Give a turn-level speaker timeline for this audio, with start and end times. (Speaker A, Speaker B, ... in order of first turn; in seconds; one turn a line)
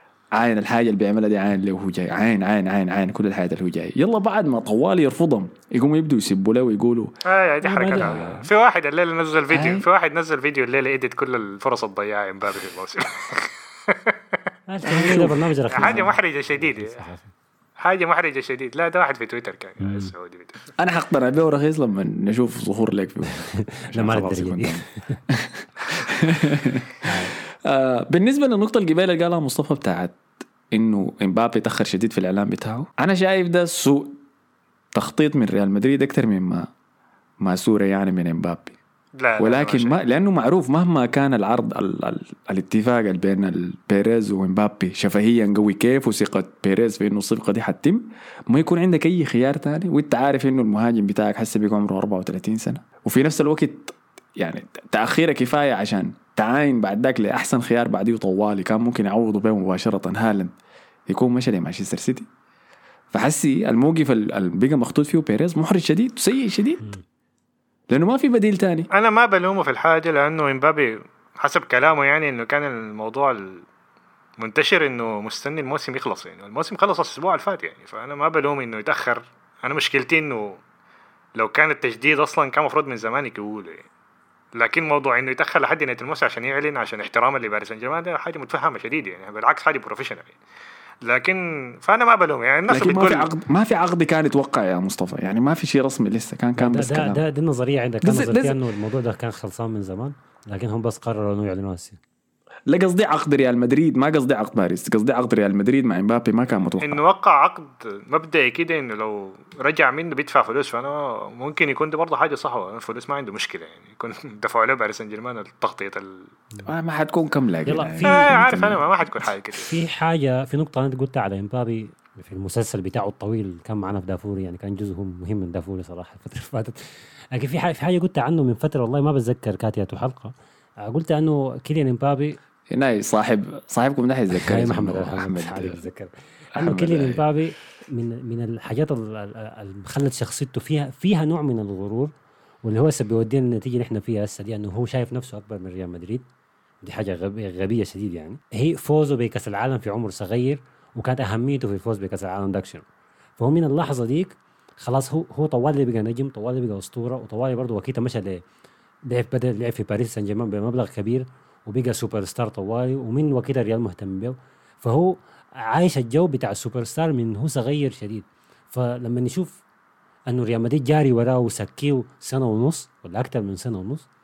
Speaker A: 0.3-7.1
Speaker B: 7.2-14.4
Speaker C: 7.6-8.5
Speaker A: 9.5-9.9
Speaker C: 14.7-17.3
Speaker A: 14.9-16.1
Speaker B: 15.0-17.0
Speaker B: 17.8-20.7
Speaker C: 19.8-20.1
Speaker A: 20.8-30.2
Speaker C: 23.6-25.2
Speaker C: 27.0-27.3
Speaker A: 30.7-34.2
Speaker A: 34.9-36.7
Speaker A: 37.4-38.8
Speaker B: 39.1-40.0
Speaker A: 39.4-60.5
Speaker A: 61.1-62.3
Speaker A: 63.1-66.9
Speaker A: 67.9-68.9
Speaker B: 68.9-73.6
Speaker B: 74.4-80.6
Speaker B: 81.4-83.9
Speaker B: 84.5-90.4
Speaker B: 91.0-93.3
Speaker A: 92.7-97.2
Speaker C: 96.5-102.0
Speaker A: 98.0-98.6
Speaker A: 102.7-107.0
Speaker B: 106.8-116.3
Speaker A: 116.6-118.8
Speaker C: 117.6-118.3
Speaker B: 118.0-119.8
Speaker C: 119.7-130.3
Speaker C: 130.9-132.4
Speaker A: 132.7-135.8
Speaker C: 134.3-142.1
Speaker A: 136.6-137.2
Speaker C: 142.6-146.2
Speaker C: 146.8-152.8
Speaker C: 153.4-158.4
Speaker C: 159.1-169.6
Speaker C: 170.3-174.1